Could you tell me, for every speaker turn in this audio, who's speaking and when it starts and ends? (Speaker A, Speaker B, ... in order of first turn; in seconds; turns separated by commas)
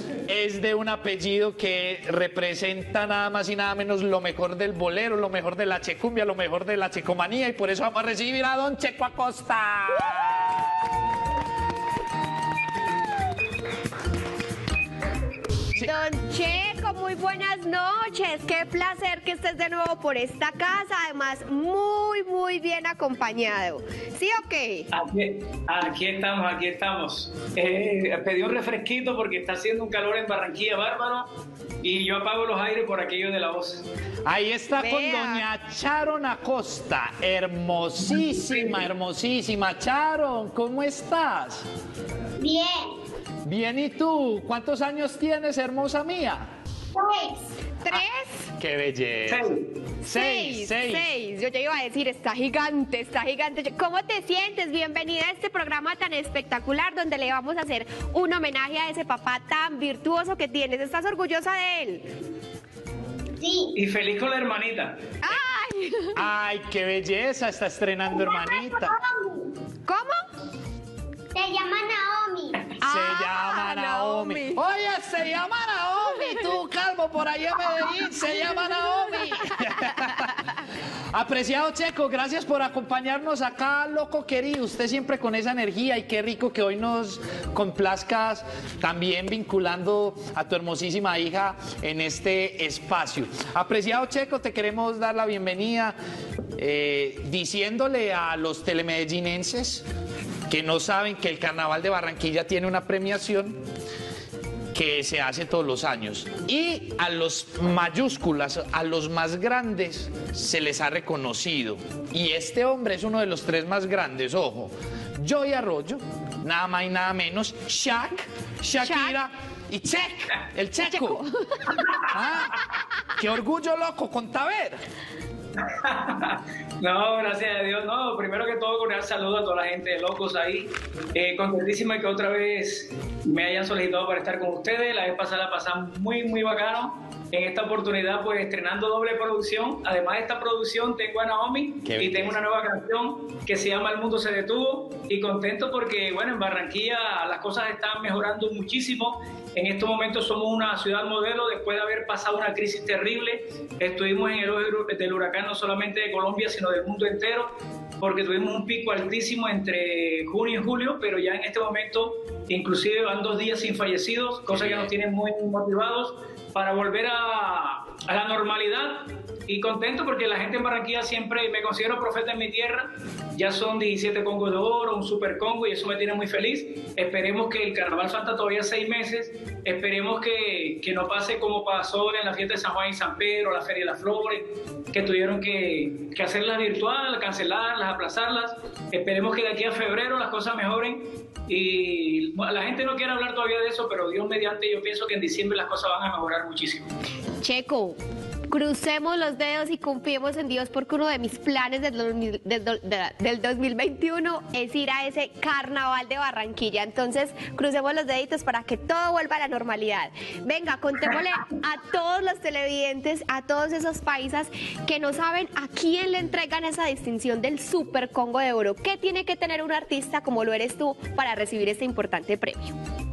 Speaker A: 0.3-10.7, Speaker B: 15.8-24.9, Speaker C: 24.9-31.3, Speaker C: 31.8-33.8, Speaker A: 34.2-41.6, Speaker B: 34.8-35.5, Speaker C: 38.2-38.8, Speaker D: 42.4-42.9, Speaker A: 43.4-46.5, Speaker D: 46.9-47.5, Speaker B: 47.8-48.5, Speaker A: 48.6-49.5, Speaker C: 49.3-49.7, Speaker B: 50.0-62.1, Speaker A: 50.0-51.0, Speaker D: 63.4-63.7, Speaker C: 63.7-65.0, Speaker B: 65.2-66.2, Speaker A: 66.1-68.9, Speaker D: 68.1-69.5, Speaker B: 69.9-70.2, Speaker D: 71.3-72.6, Speaker B: 72.8-74.6, Speaker A: 72.8-80.5, Speaker A: 81.1-96.0, Speaker A: 96.6-99.8, Speaker A: 100.5-103.6, Speaker A: 104.7-121.2, Speaker B: 118.8-119.2, Speaker B: 120.8-121.8, Speaker A: 122.0-122.6, Speaker A: 123.2-124.8, Speaker C: 125.6-196.9, Speaker A: 141.8-142.4, Speaker A: 164.5-164.9, Speaker B: 197.4-198.0, Speaker B: 198.5-222.8